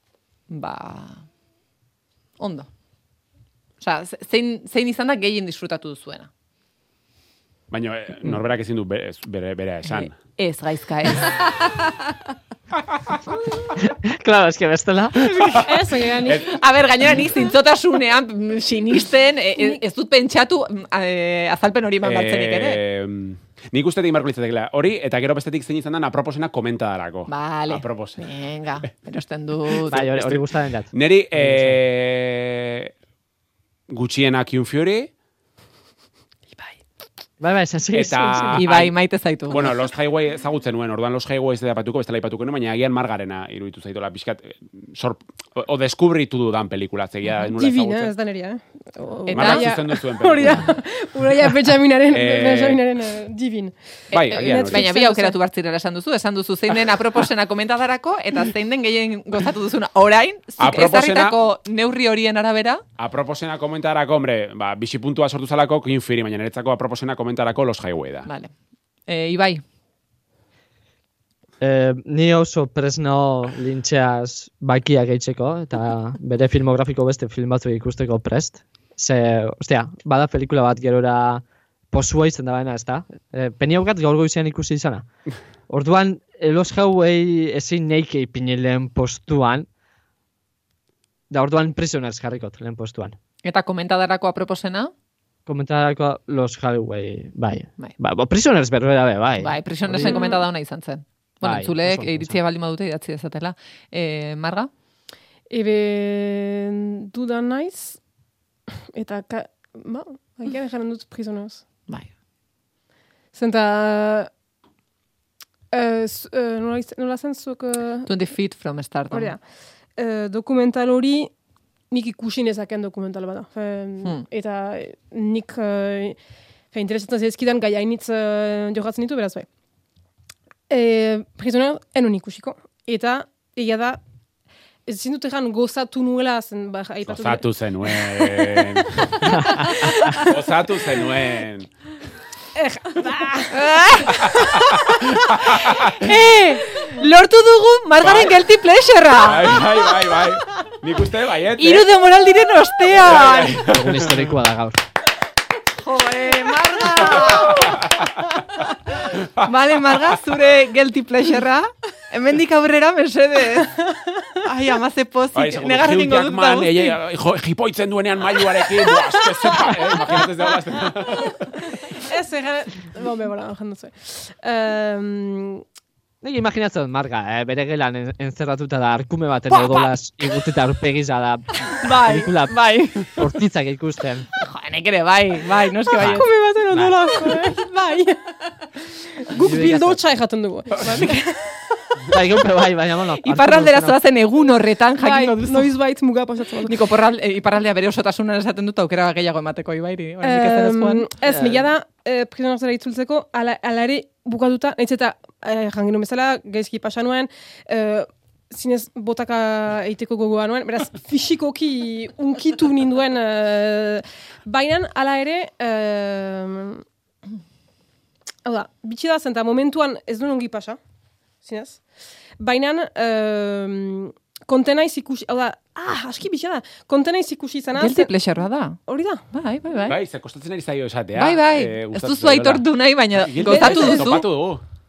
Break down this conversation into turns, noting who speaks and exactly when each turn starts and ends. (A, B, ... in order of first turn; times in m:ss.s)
0:00.5-0:01.2 A
0:02.4-0:02.7 A
0:03.8-0:06.3 A
0:07.7-0:10.2 B
0:09.9-0:11.5 A
0:13.8-0:15.4 C
0:15.3-0:22.8 A
0:15.6-0:16.5 D
0:16.1-0:16.5 B
0:22.0-0:28.3 B
0:27.3-0:30.3 A
0:29.9-0:31.8 C
0:29.9-0:32.9 B
0:33.9-0:35.1 B
0:37.4-0:38.6 C
0:37.9-0:39.0 B
0:38.6-0:39.7 A
0:39.5-0:48.1 B
0:47.6-0:55.4 D
0:49.3-0:49.7 A
0:49.3-0:50.8 B
0:52.1-0:52.8 B
0:54.1-1:02.8 A
0:54.1-0:54.8 B
1:00.6-1:01.4 B
1:03.0-1:08.3 B
1:08.2-1:08.5 A
1:09.1-1:09.6 A
1:11.6-1:25.0 C
1:25.7-1:29.7 C
1:31.3-1:33.2 C
1:33.4-1:34.9 A
1:35.4-1:40.2 C
1:39.4-1:44.7 A
1:40.0-1:40.4 D
1:41.4-1:42.4 C
1:45.5-1:48.0 D
1:48.9-1:51.6 D
1:51.9-1:52.1 A
1:53.3-1:54.3 D
1:55.7-1:58.1 D
1:58.0-1:59.4 A
1:59.1-2:01.3 D
2:01.9-2:09.5 D
2:10.7-2:14.0 D
2:14.9-2:20.4 D
2:17.0-2:21.7 B
2:19.3-2:19.7 C
2:22.6-2:24.7 D
2:23.5-2:24.4 A
2:24.2-2:26.0 B
2:26.0-2:29.6 A
2:28.0-2:28.3 B
2:29.2-2:31.9 B
2:31.6-2:33.6 A
2:33.0-2:34.2 B
2:33.7-2:34.8 C
2:35.7-2:43.7 A
2:37.0-2:37.6 D
2:43.5-2:44.4 D
2:44.4-2:47.0 A
2:45.3-2:51.6 B
2:50.0-2:51.0 D
2:51.6-2:55.6 D
2:56.2-3:04.3 C
2:59.5-2:59.8 D
3:01.7-3:03.1 D
3:02.7-3:03.0 A
3:04.4-3:06.3 A
3:06.0-3:12.1 D
3:09.4-3:10.0 C
3:12.1-3:14.0 C
3:13.2-3:15.7 A
3:15.0-3:16.9 D
3:16.6-3:21.1 A
3:20.2-3:36.8 D
3:21.2-3:21.7 C
3:38.4-3:40.8 D
3:41.4-3:41.9 D
3:42.4-3:48.1 D
3:47.7-3:50.0 A
3:48.9-3:49.2 D
3:49.9-3:54.6 B
3:51.1-3:54.2 A
3:53.4-3:54.2 D